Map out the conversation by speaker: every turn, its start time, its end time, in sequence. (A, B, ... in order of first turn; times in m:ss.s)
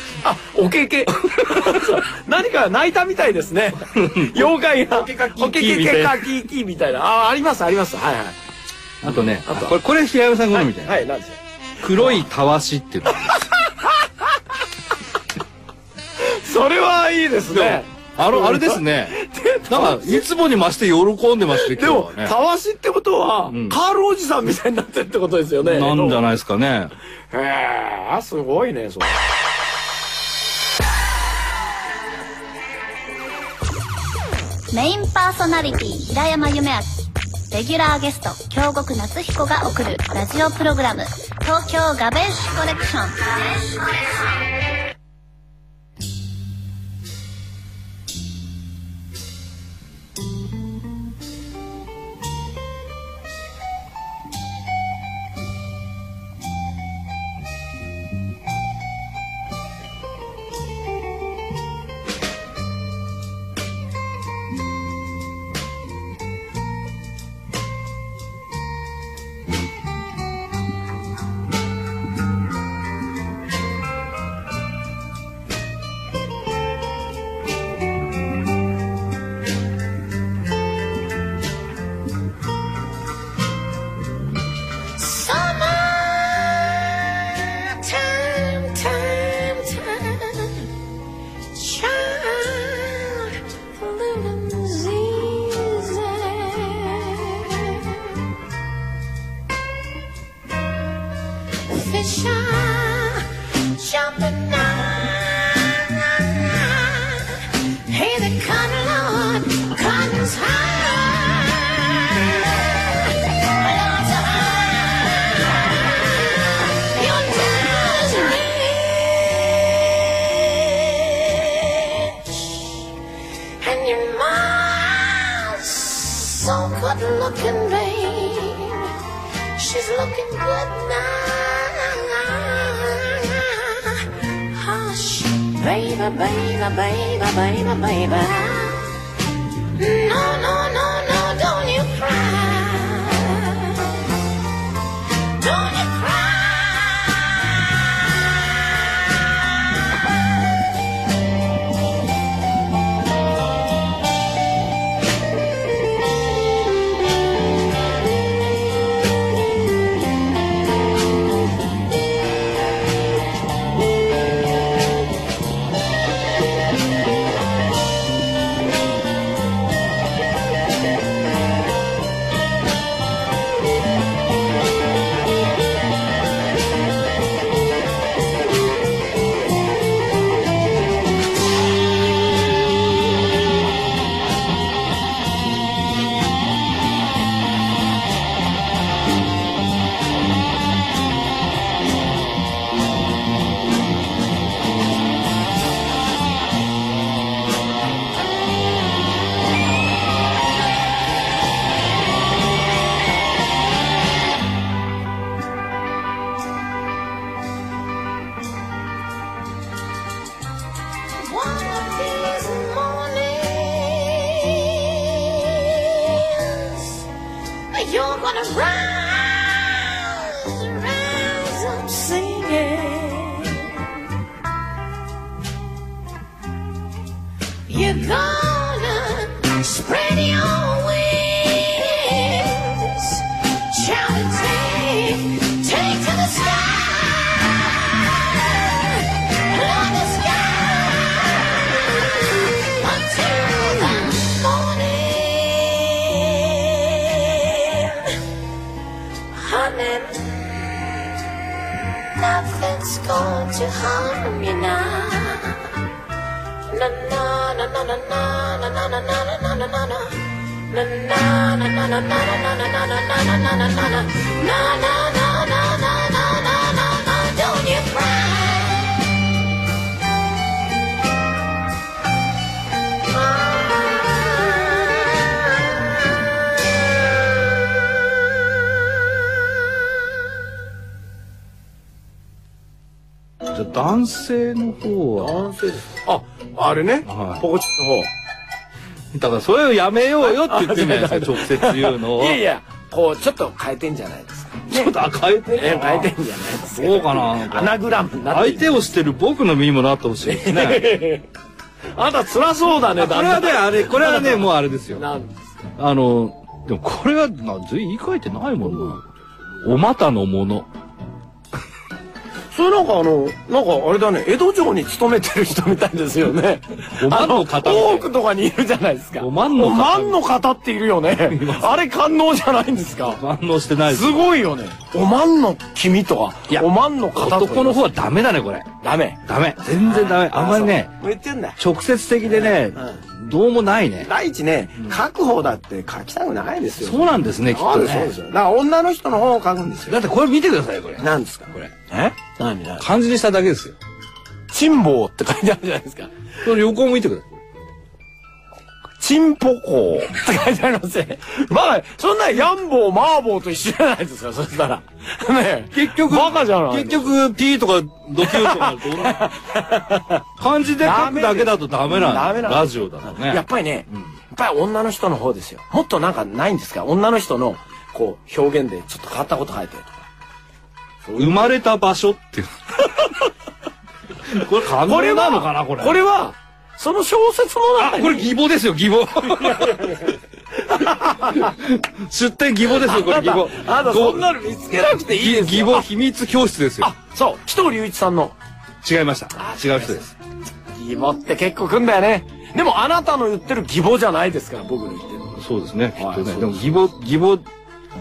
0:00.2-0:08.4 A
0:03.9-0:06.3 B
0:09.0-0:11.0 B
0:09.1-0:09.8 A
0:10.5-0:12.2 A
0:11.8-0:13.4 B
0:13.3-0:14.0 A
0:16.2-0:20.2 A
0:17.5-0:22.3 B
0:21.6-0:26.2 A
0:23.5-0:23.8 B
0:25.6-0:26.9 B
0:27.3-0:29.2 A
0:34.7-0:36.9 C
0:37.5-0:44.3 C
1:25.0-1:30.5 D
1:31.5-1:33.2 D
1:33.8-1:37.5 D
1:41.7-1:43.2 D
1:43.8-1:47.2 D
1:47.9-1:51.7 D
1:53.6-1:55.2 D
1:56.8-2:02.8 D
2:03.6-2:08.8 D
2:09.6-2:13.9 D
2:14.5-2:18.9 D
2:19.8-2:23.4 D
2:25.4-2:27.1 D
3:31.2-3:36.8 D
3:37.7-3:43.7 D
3:47.7-3:57.5 D
3:59.5-4:01.3 D
4:02.8-4:06.8 D
4:09.3-4:10.5 D
4:12.2-4:15.5 D
4:16.7-4:29.0 D
4:33.2-4:35.0 D
4:43.5-4:45.4 B
4:45.2-4:48.1 A
4:47.0-4:47.4 B
4:49.1-4:52.4 B
4:50.2-4:58.8 A
4:54.7-5:01.0 B
5:00.2-5:01.3 A
5:02.0-5:05.5 A
5:03.0-5:05.0 B
5:05.8-5:09.1 B
5:09.6-5:10.7 B
5:12.5-5:23.2 A
5:17.0-5:18.1 B
5:19.2-5:20.2 B
5:21.2-5:21.8 B
5:23.0-5:24.3 B
5:23.9-5:27.9 A
5:26.5-5:30.9 B
5:28.8-5:29.2 A
5:29.8-5:31.6 A
5:31.6-5:34.1 B
5:32.3-5:33.0 A
5:34.0-5:40.0 A
5:36.8-5:38.2 B
5:39.9-5:41.7 B
5:41.0-5:42.9 A
5:42.8-5:43.8 B
5:44.5-5:46.1 A
5:46.4-5:47.4 B
5:49.0-5:57.2 A
5:55.7-5:59.3 B
5:58.2-6:00.2 A
6:00.4-6:04.1 B
6:00.8-6:10.0 A
6:11.0-6:11.5 A
6:11.2-6:12.5 B
6:14.2-6:16.0 B
6:14.6-6:18.4 A
6:17.8-6:19.9 B
6:19.2-6:21.5 A
6:21.2-6:24.2 B
6:22.7-6:25.9 A
6:25.1-6:26.9 B
6:26.8-6:28.4 A
6:28.8-6:30.1 B
6:29.3-6:30.2 A
6:30.7-6:35.3 A
6:35.3-6:37.4 B
6:35.9-6:36.8 A